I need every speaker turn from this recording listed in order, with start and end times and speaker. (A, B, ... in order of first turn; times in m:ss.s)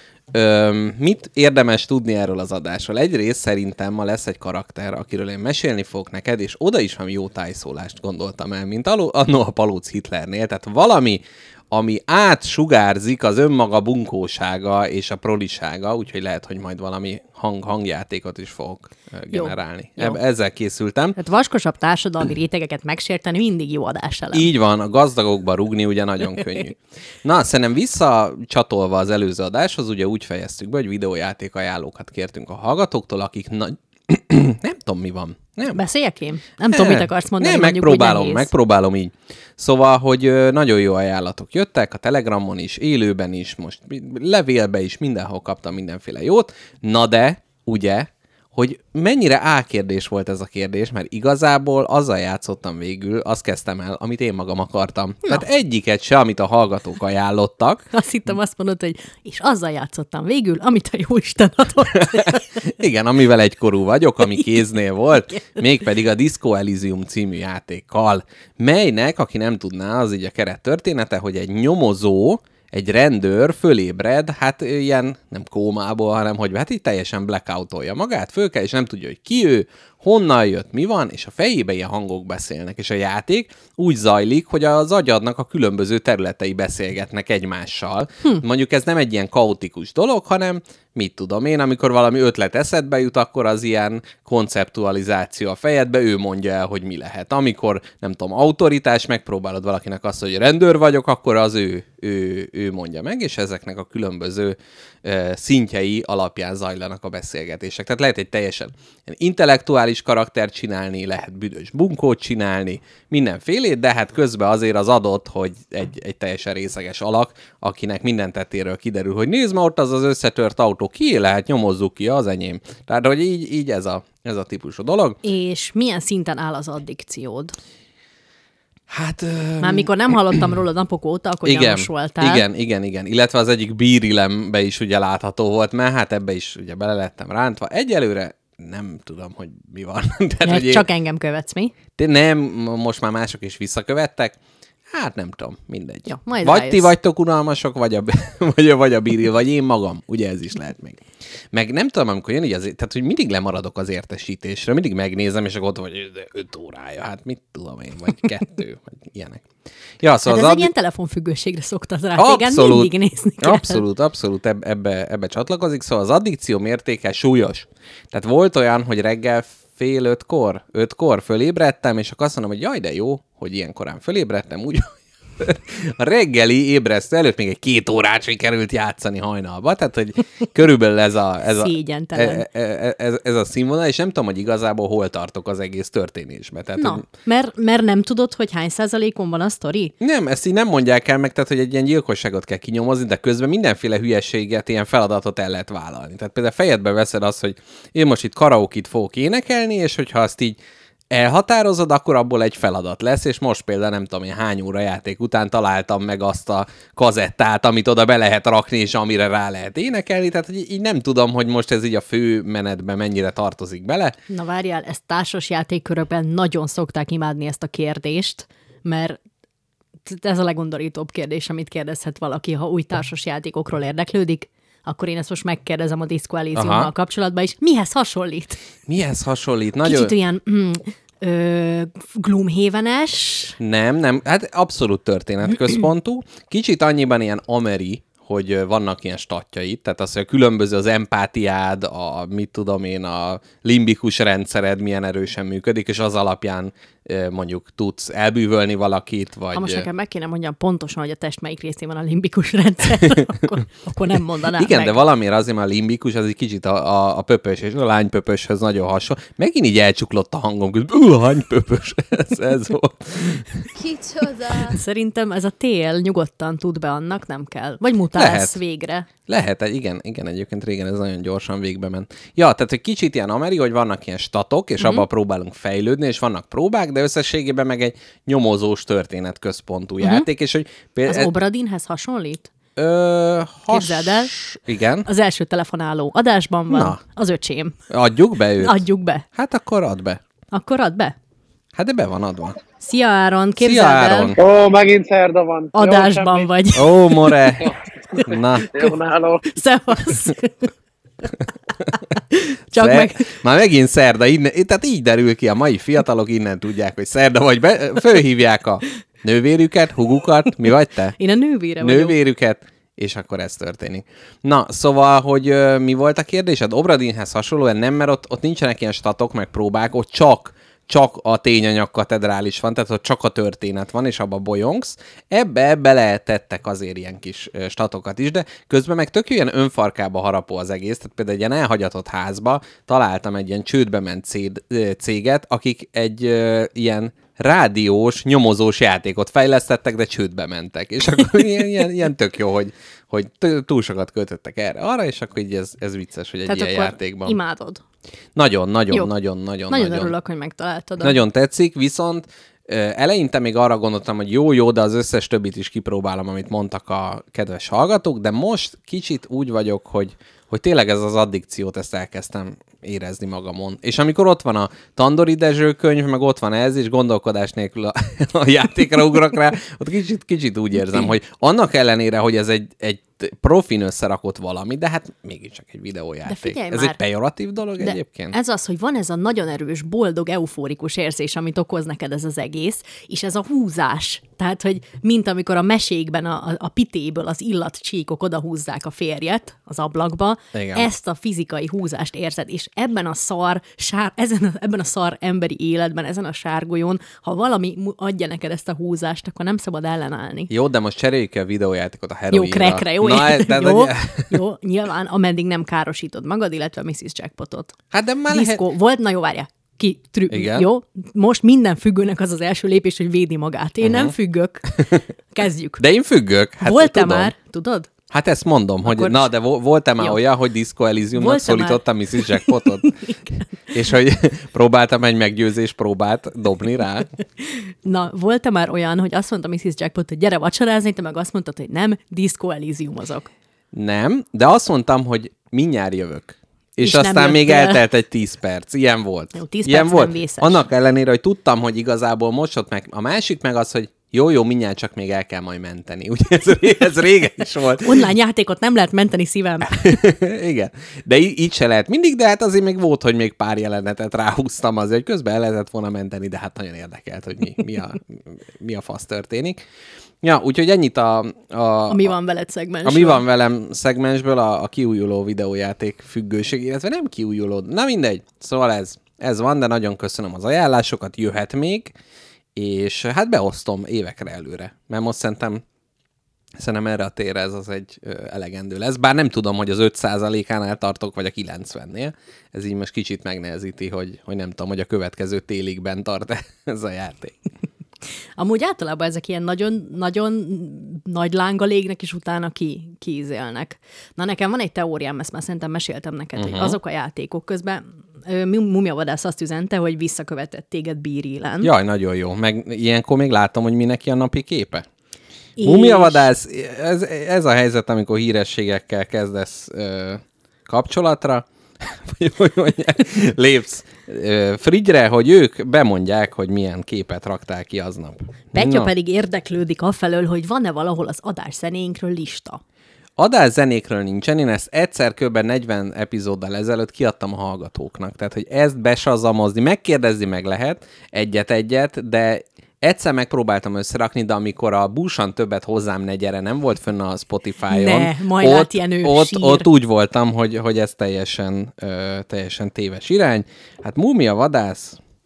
0:00.3-0:21.2 A
0:19.3-0:20.2 B
0:21.2-0:24.5 B
0:24.3-0:35.8 A
0:35.7-0:38.5 B
0:36.7-0:57.8 A
0:57.9-1:02.6 B
1:01.9-2:05.2 A
1:05.3-1:05.6 B
2:05.2-2:07.6 B
2:08.9-2:10.4 A
2:09.6-2:12.4 B
2:11.4-2:20.8 A
2:20.4-2:21.7 B
2:22.0-2:24.4 A
2:24.9-2:39.4 A
2:26.1-2:26.9 B
2:40.0-2:40.7 A
2:40.2-2:43.8 B
2:42.2-3:07.0 A
3:01.5-3:02.4 B
3:06.8-3:09.9 B
3:10.0-3:20.6 A
3:21.1-3:34.2 A
3:34.3-3:39.2 B
3:40.0-3:48.6 B
3:46.5-3:46.9 A
3:48.9-3:50.1 A
3:49.8-3:53.6 B
3:53.6-4:09.9 A
4:09.5-4:15.0 B
4:13.0-4:13.4 A
4:14.5-4:23.8 A
4:23.9-4:29.1 B
4:28.1-4:28.6 A
4:29.2-4:41.3 A
4:34.8-4:35.0 B
4:40.0-4:40.3 B
4:41.0-4:42.5 B
4:42.8-4:45.1 A
4:43.7-4:44.3 B
4:45.0-4:47.8 B
4:46.7-4:47.0 A
4:47.9-4:50.2 A
4:48.6-4:49.2 B
4:50.5-4:51.2 B
4:51.8-4:52.6 A
4:52.8-4:54.4 B
4:53.6-4:54.4 A
4:54.4-4:56.5 C
4:55.7-4:57.4 B
4:56.7-4:58.8 A
4:58.7-5:00.7 B
4:58.7-4:59.5 C
5:02.1-5:03.3 B
5:02.7-5:11.2 A
5:11.2-5:12.2 B
5:11.8-5:47.4 A
5:46.4-5:47.8 B
5:48.3-5:50.1 A
5:49.7-5:51.2 B
5:51.0-6:18.4 A
6:16.2-6:17.0 B
6:17.8-6:40.5 B
6:30.5-6:30.9 A
6:40.5-6:44.4 A
6:42.3-6:47.7 B
6:47.9-6:48.6 A
6:48.3-6:55.8 B
6:50.3-6:50.7 A
6:53.8-6:54.1 A
6:55.8-6:57.3 A
6:56.6-6:57.9 B
6:58.1-7:02.9 A
6:58.8-6:59.3 B
7:01.1-7:03.4 B
7:03.7-7:07.1 A
7:07.4-7:13.3 B
7:13.7-7:28.1 A
7:16.8-7:17.8 B
7:19.3-7:20.6 B
7:27.8-7:30.0 B
7:29.6-7:39.6 A
7:40.2-7:42.1 A
7:41.9-7:43.2 B
7:42.8-7:52.0 A
7:52.5-7:55.6 A
7:56.6-8:07.3 A
8:08.4-8:21.7 B
8:16.4-8:16.8 A
8:21.6-8:24.8 A
8:25.6-8:26.3 B
8:25.6-8:38.9 A
8:38.5-8:42.6 B
8:43.2-9:05.0 A
8:57.7-8:59.7 B